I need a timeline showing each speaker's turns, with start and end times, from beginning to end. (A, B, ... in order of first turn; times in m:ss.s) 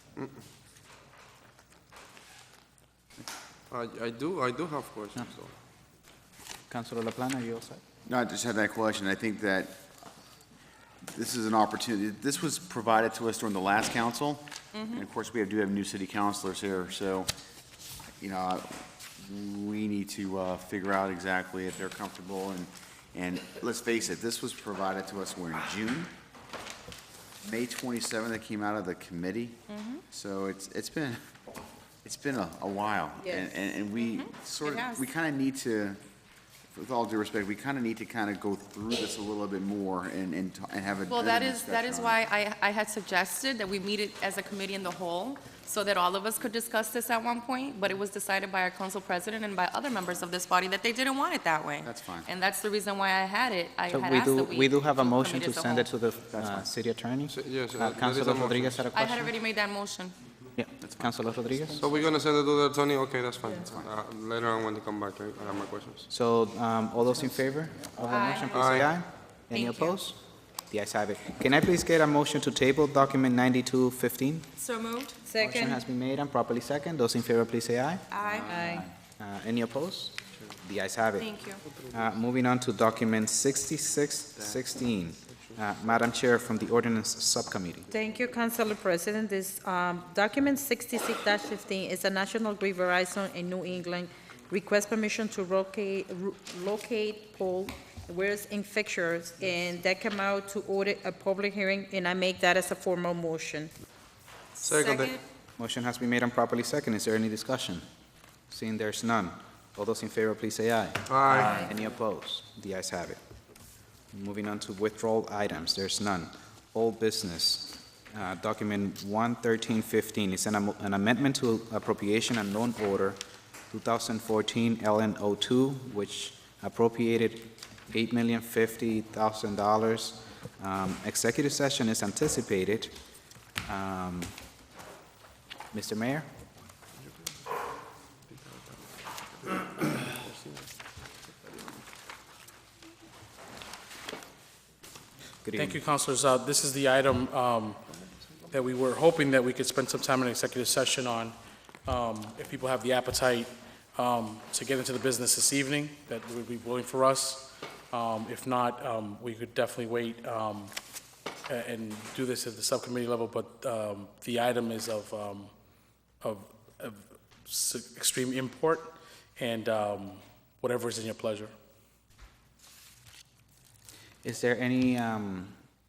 0:03.7-0:05.5 A
0:06.7-0:07.8 B
0:08.0-0:09.8 C
0:11.0-0:17.3 C
0:14.7-0:15.0 D
0:18.2-0:26.1 C
0:27.4-0:31.2 C
0:29.7-0:30.0 D
0:32.0-0:36.0 C
0:33.2-0:33.5 E
0:34.0-0:35.0 D
0:36.7-0:42.2 C
0:41.1-0:55.9 D
0:51.8-0:52.3 C
0:53.9-0:59.3 B
0:56.3-0:56.7 C
0:57.3-0:58.9 A
0:58.9-1:00.1 D
1:00.6-1:01.8 B
1:00.8-1:01.8 C
1:01.8-1:06.1 A
1:06.1-1:14.5 B
1:08.0-1:08.9 D
1:08.5-1:09.0 A
1:09.5-1:10.0 D
1:14.6-1:15.2 D
1:15.2-1:15.8 E
1:15.4-1:21.3 B
1:18.1-1:18.5 D
1:18.5-1:18.8 E
1:21.2-1:21.6 D
1:21.9-1:27.9 B
1:27.9-1:43.7 E
1:44.6-1:45.2 D
1:44.6-1:45.2 A
1:45.6-1:47.8 B
1:48.5-1:53.2 B
1:51.1-1:51.5 A
1:54.1-2:03.2 B
2:03.7-2:12.9 B
2:13.6-2:14.4 B
2:15.7-2:16.3 B
2:19.4-2:20.6 A
2:25.4-2:25.8 B
2:25.5-2:27.8 F
2:28.5-2:40.7 F
2:41.5-2:45.5 F
2:46.2-2:51.5 F
2:54.2-2:55.6 B